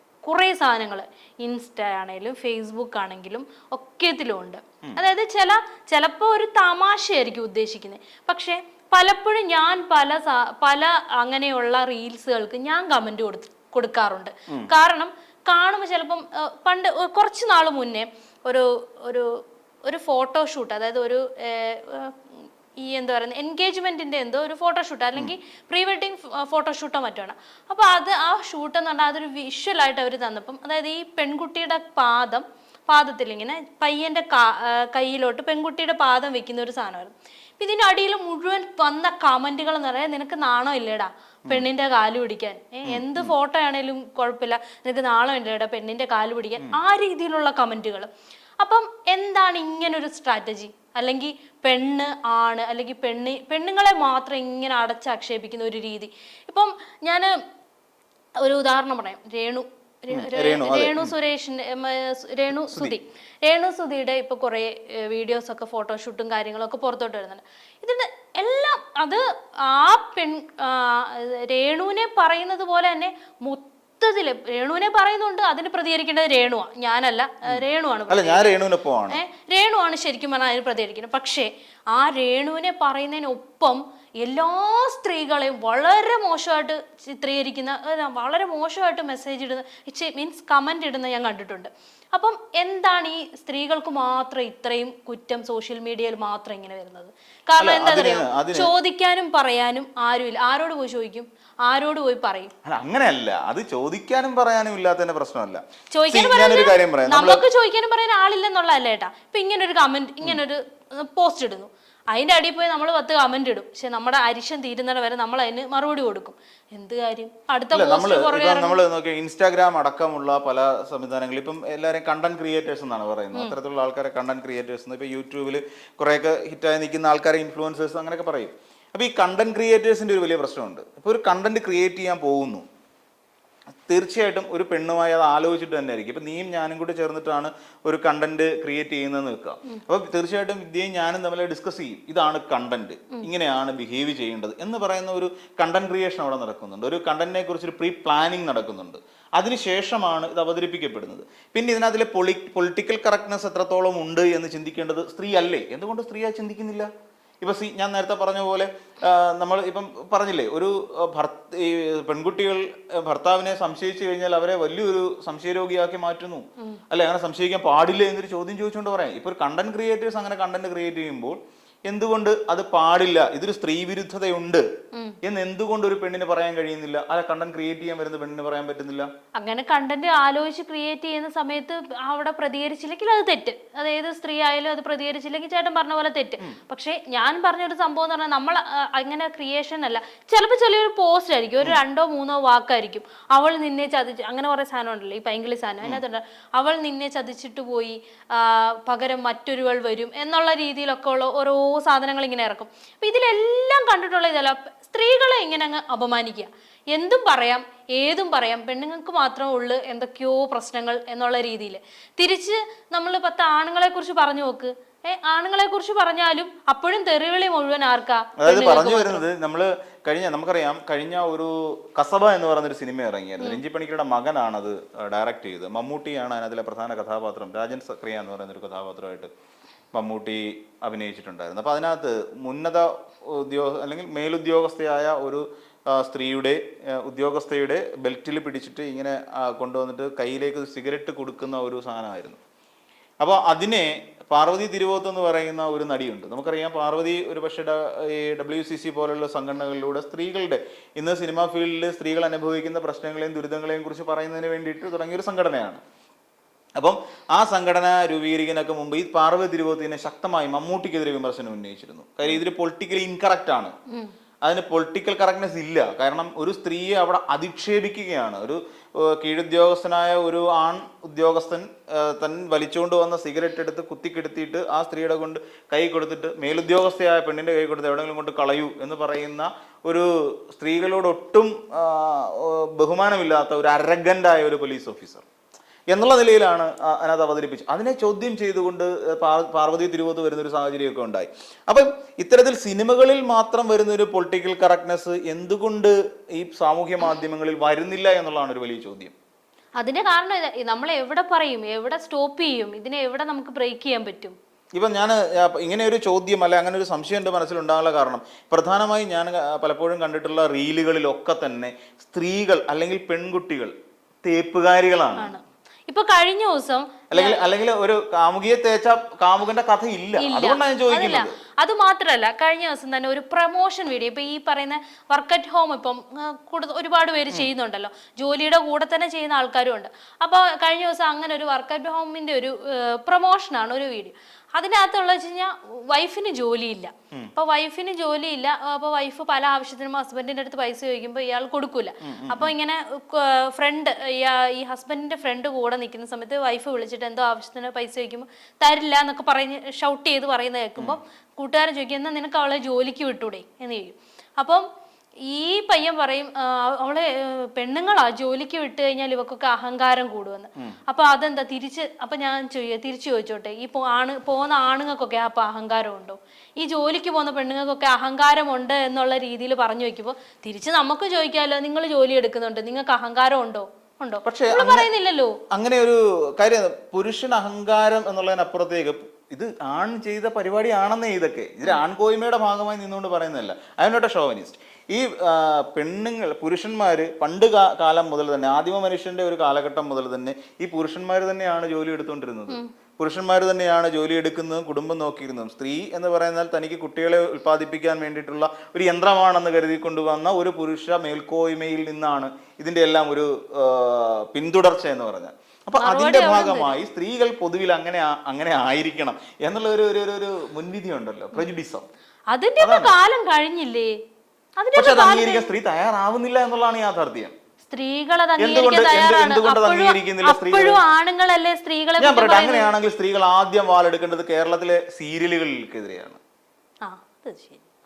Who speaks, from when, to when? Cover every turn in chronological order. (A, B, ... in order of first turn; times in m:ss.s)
0:00.2-0:19.3 A
0:19.8-0:48.1 A
0:42.9-0:43.3 B
0:48.6-0:57.3 A
0:58.4-1:18.6 A
1:00.1-1:01.1 B
1:02.6-1:03.0 B
1:17.5-1:19.2 B
1:19.1-1:42.5 A
1:37.6-1:38.7 B
1:42.6-1:47.4 B
1:45.9-1:58.8 A
1:57.7-2:12.6 B
2:13.9-2:36.9 B
2:37.4-2:54.6 B
2:55.2-2:59.1 B
2:59.4-3:39.2 A
3:38.4-3:49.3 B
3:49.9-4:02.4 B
4:03.2-4:15.8 B
4:16.8-4:23.7 B
4:24.4-4:45.2 B
4:45.9-4:59.1 B
4:59.8-5:04.4 A
5:04.8-5:13.7 B
5:14.2-5:15.3 B
5:15.2-5:17.4 A
5:17.1-5:21.3 B
5:20.2-5:54.6 A
5:42.0-5:42.5 B
5:55.2-6:15.4 A
6:14.2-6:14.9 B
6:15.5-6:51.8 B
6:45.8-6:46.8 A
6:52.3-6:53.9 A
6:52.6-6:52.9 B
6:54.6-6:55.5 A
6:54.8-6:57.3 B
6:57.6-7:02.7 A
6:58.4-7:00.8 B
7:02.0-7:06.2 B
7:06.8-7:07.6 A